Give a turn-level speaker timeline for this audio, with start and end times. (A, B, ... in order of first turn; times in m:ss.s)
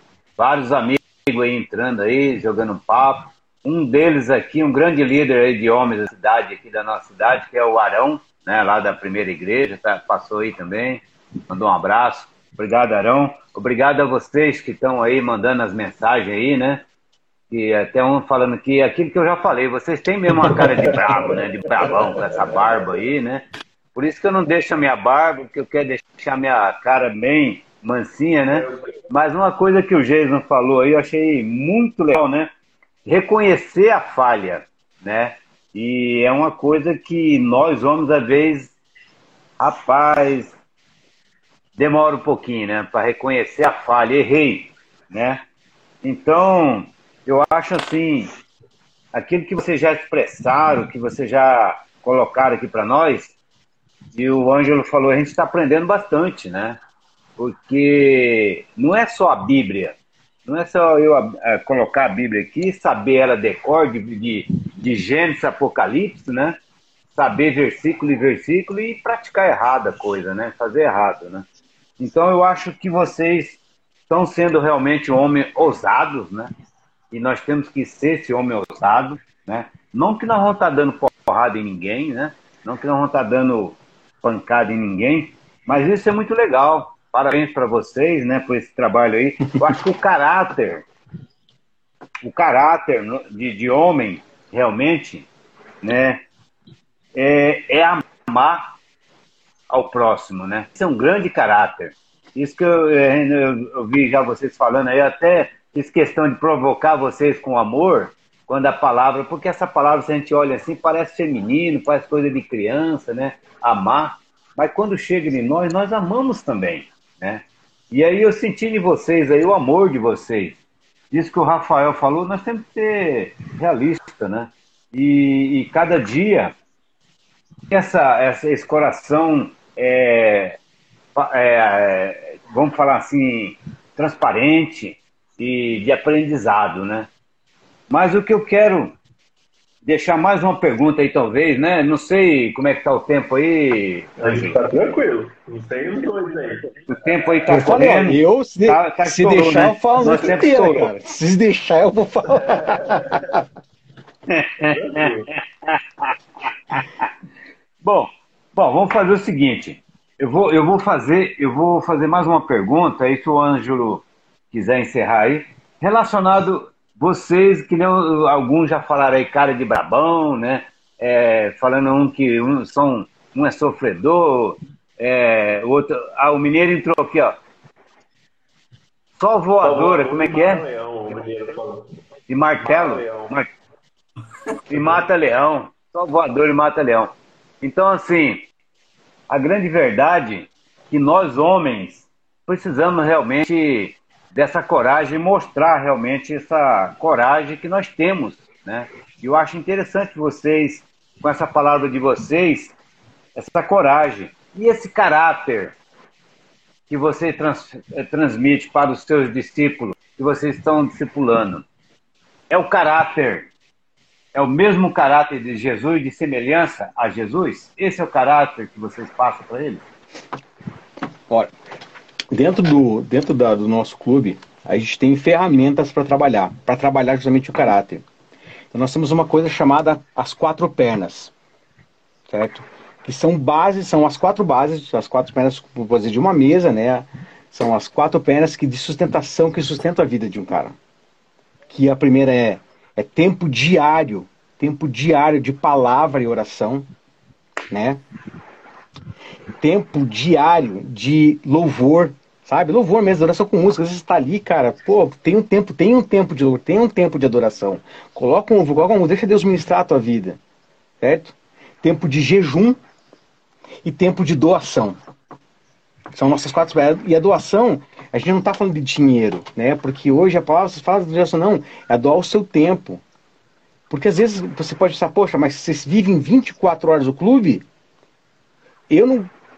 0:00.4-0:16.8 A
0:17.5-0:23.4 A
0:20.5-0:21.3 B
0:21.8-0:22.7 B
0:23.9-0:32.5 A
0:28.5-0:28.9 B
0:33.0-0:38.7 A
0:39.6-0:40.6 A
0:41.8-0:45.4 A
0:46.0-0:48.3 A
0:49.1-0:53.4 A
0:54.1-0:56.8 A
0:57.4-1:06.6 A
1:07.1-1:11.4 A
1:12.0-1:16.5 A
1:17.1-1:30.9 A
1:32.2-1:35.3 A
1:35.8-1:36.2 A
1:37.1-1:38.8 A
1:39.7-2:00.6 A
2:01.1-2:06.5 A
2:07.7-2:10.6 A
2:11.2-2:17.1 A
2:17.9-2:18.9 A
2:19.8-2:24.6 A
2:24.2-2:26.9 B
2:26.9-2:30.9 A
2:27.5-2:33.4 C
2:32.4-2:33.4 B
2:34.3-2:36.1 A
2:34.7-2:35.3 B
2:36.7-2:37.1 A
2:37.8-2:57.4 A
2:59.2-3:00.6 A
2:59.6-3:01.9 B
3:02.3-3:03.5 A
3:02.6-3:03.4 B
3:04.7-3:08.4 A
3:04.7-3:05.0 B
3:09.3-3:22.7 A
3:23.4-3:25.7 A
3:26.9-3:31.6 A
3:32.5-3:33.5 A
3:34.3-3:39.8 A
3:42.3-3:48.0 C
3:48.7-3:51.3 C
3:52.3-4:00.8 C
4:01.7-4:06.9 C
4:07.7-4:08.0 C
4:09.6-4:20.4 C
4:21.0-4:22.8 C
4:23.8-4:25.0 C
4:26.1-4:33.0 C
4:33.9-4:37.6 C
4:38.9-4:39.3 C